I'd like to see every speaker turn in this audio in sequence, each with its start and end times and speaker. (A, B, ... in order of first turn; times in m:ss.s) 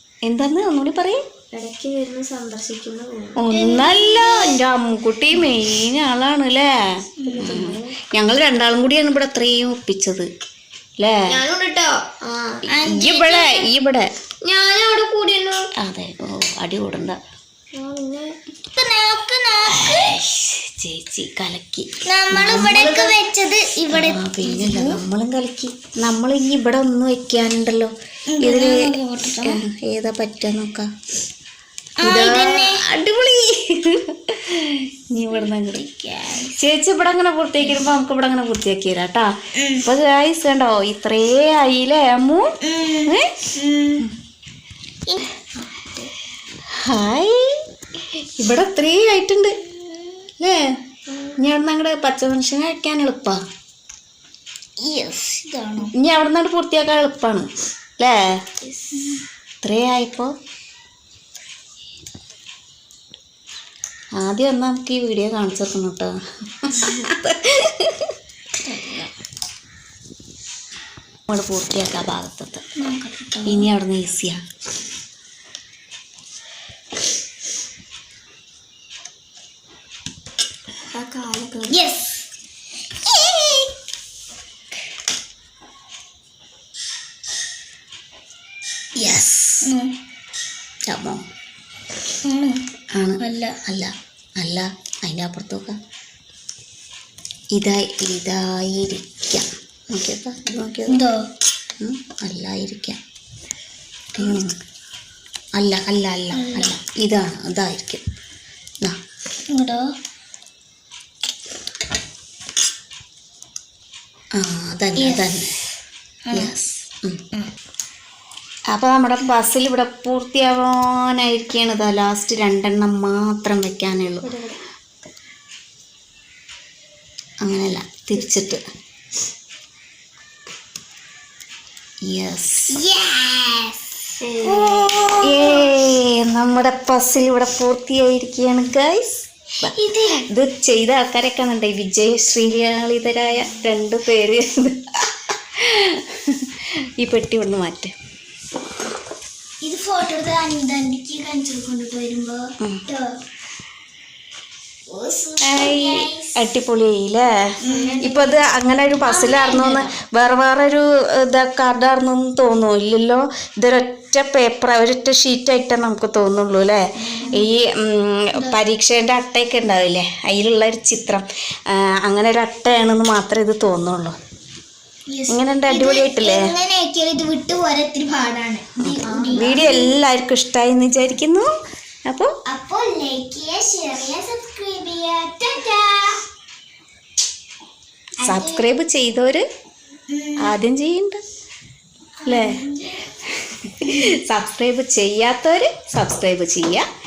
0:00.2-0:01.2 A
0:01.5-0:03.4 B
0:03.4-0:10.3 A
0:03.5-0:04.6 C
0:07.2-0:07.5 C
0:07.2-0:08.0 B
0:11.0-0:11.3 A
0:11.3-0:12.7 B
0:12.7-0:14.1 A
0:12.7-0:13.7 C
0:14.4-0:15.7 B
0:15.8-0:17.2 A
0:17.7-0:18.4 B
0:18.7-0:20.2 C
0:19.8-0:23.1 A
0:22.1-0:25.0 C
0:23.9-0:30.9 A
0:28.3-0:29.6 C
0:32.0-0:32.8 C
0:32.0-0:35.8 A
0:35.7-0:36.6 C
0:36.5-0:44.0 A
0:39.6-0:39.9 C
0:42.6-0:44.1 C
0:45.7-0:46.1 B
0:46.8-0:49.5 A
0:49.8-0:50.2 C
0:50.4-0:50.8 A
0:51.4-0:53.4 A
0:54.8-0:55.9 C
0:56.0-0:58.2 A
0:58.9-0:59.2 C
0:59.6-1:00.3 A
1:04.2-1:08.2 A
1:08.6-1:09.1 C
1:11.3-1:12.6 A
1:12.8-1:13.7 C
1:13.4-1:14.4 A
1:20.9-1:21.8 B
1:21.7-1:22.3 C
1:23.1-1:23.7 C
1:29.0-1:29.6 A
1:29.0-1:29.9 C
1:30.9-1:31.2 A
1:32.2-1:32.6 C
1:32.9-1:35.8 A
1:33.2-1:33.6 C
1:37.5-1:41.1 A
1:40.9-1:41.2 C
1:41.8-1:43.0 A
1:44.2-1:44.6 A
1:45.6-1:48.0 A
1:46.3-1:46.7 C
1:49.5-1:49.9 C
1:54.4-1:55.6 A
1:55.0-1:55.4 C
1:56.3-1:56.5 C
1:56.3-1:57.2 A
1:58.7-2:04.4 A
2:04.2-2:04.6 B
2:07.4-2:08.6 A
2:12.0-2:12.8 A
2:12.7-2:15.7 C
2:14.2-2:15.2 B
2:14.4-2:19.7 A
2:19.6-2:20.3 C
2:20.3-2:27.9 A
2:29.6-2:33.2 C
2:34.9-2:36.4 C
2:35.5-2:54.2 A
2:37.6-2:38.4 C
2:37.7-2:38.0 B
2:39.0-2:39.9 C
2:47.1-2:47.4 C
2:55.1-2:59.9 C
2:55.3-2:56.5 A
2:58.8-3:01.5 A
2:59.0-2:59.7 B
3:02.1-3:02.3 A
3:02.5-3:06.2 C
3:08.2-3:08.7 C
3:08.2-3:09.4 A
3:10.1-3:10.6 C
3:10.4-3:11.2 A
3:12.2-3:13.1 C
3:12.3-3:12.6 A
3:13.2-3:16.9 A